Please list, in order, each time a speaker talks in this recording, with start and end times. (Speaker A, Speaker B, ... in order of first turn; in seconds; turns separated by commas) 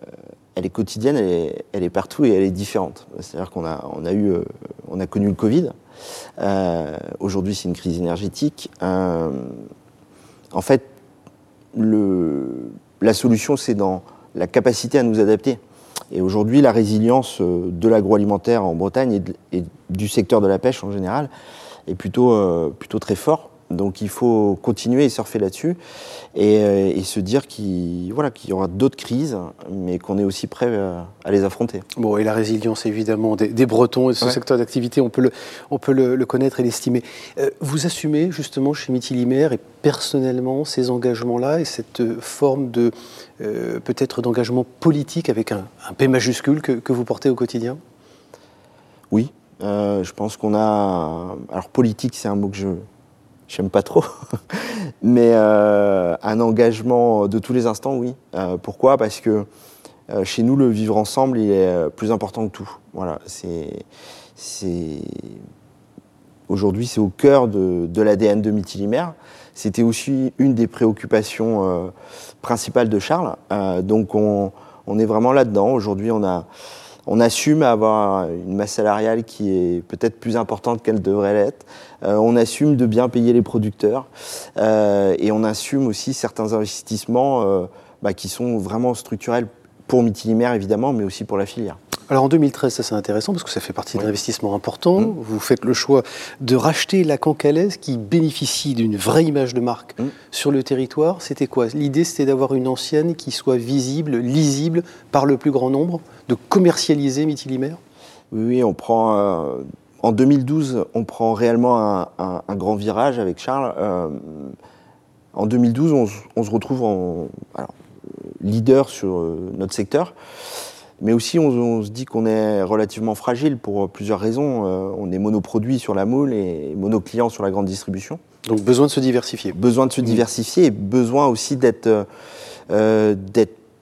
Speaker A: 0.6-5.7, Speaker A: 6.4-9.6, Speaker A: 10.5-10.9, Speaker A: 11.7-15.6, Speaker A: 16.1-21.3, Speaker A: 21.9-25.8, Speaker A: 26.4-31.8, Speaker B: 31.9-47.8, Speaker A: 49.1-52.8, Speaker A: 53.5-59.5, Speaker A: 60.1-63.9, Speaker A: 64.4-65.4, Speaker A: 66.5-76.5, Speaker A: 77.1-91.8, Speaker B: 92.1-107.8, Speaker A: 108.3-114.5, Speaker A: 115.3-120.1, Speaker A: 121.0-128.2, Speaker B: 128.5-130.2, Speaker A: 129.5-132.1, Speaker A: 132.7-133.6